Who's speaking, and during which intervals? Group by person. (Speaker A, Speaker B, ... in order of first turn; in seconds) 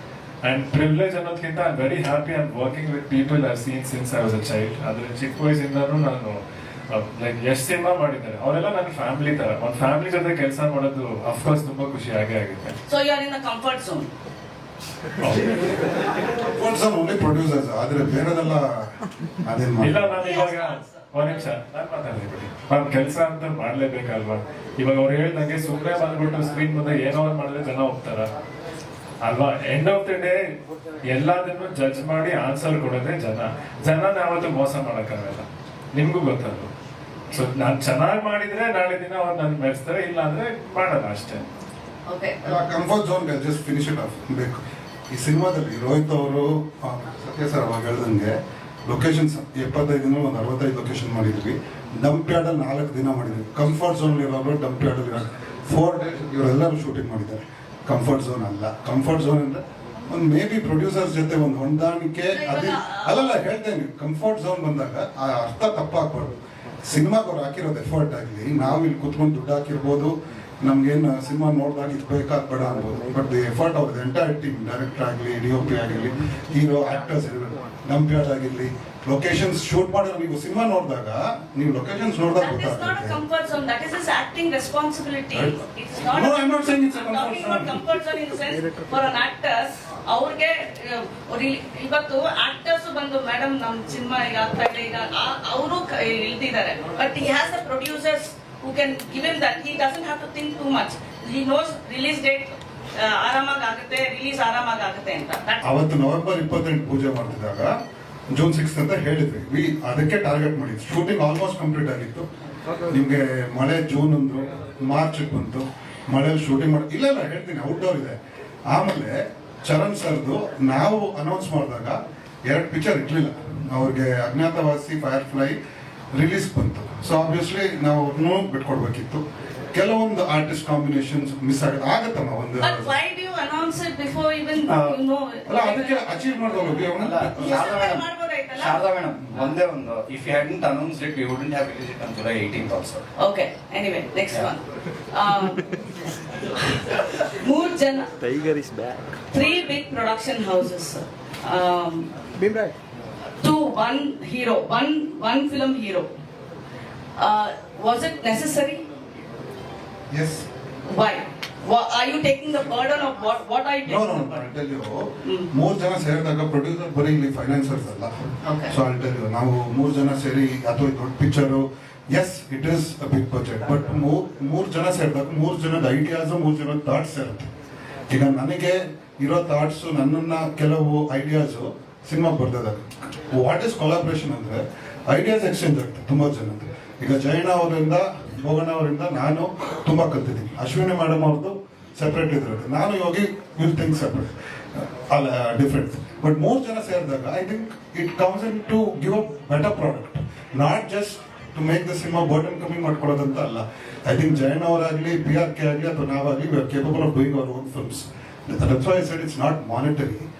Speaker A: 0.4-12.8, 15.2-15.6, 19.8-28.3, 29.2-30.4, 31.0-36.7, 37.3-41.5
Speaker B: 12.9-14.1, 20.2-21.2, 42.1-42.6, 62.3-63.4, 82.4-105.6, 132.6-138.8, 143.2-145.8, 146.6-148.1, 149.3-152.1, 153.4-156.1, 157.2-158.8, 160.9-164.5, 168.4-168.7
Speaker C: 16.4-18.9, 19.4-20.1, 42.4-48.3, 48.9-83.2, 85.3-87.8, 105.6-107.8, 108.3-112.3, 112.9-118.2, 118.7-125.6, 126.1-132.9, 135.5-137.7, 160.1-160.5, 163.8-168.1, 168.7-177.5, 178.1-210.3
Speaker D: 134.7-135.0, 137.0-143.1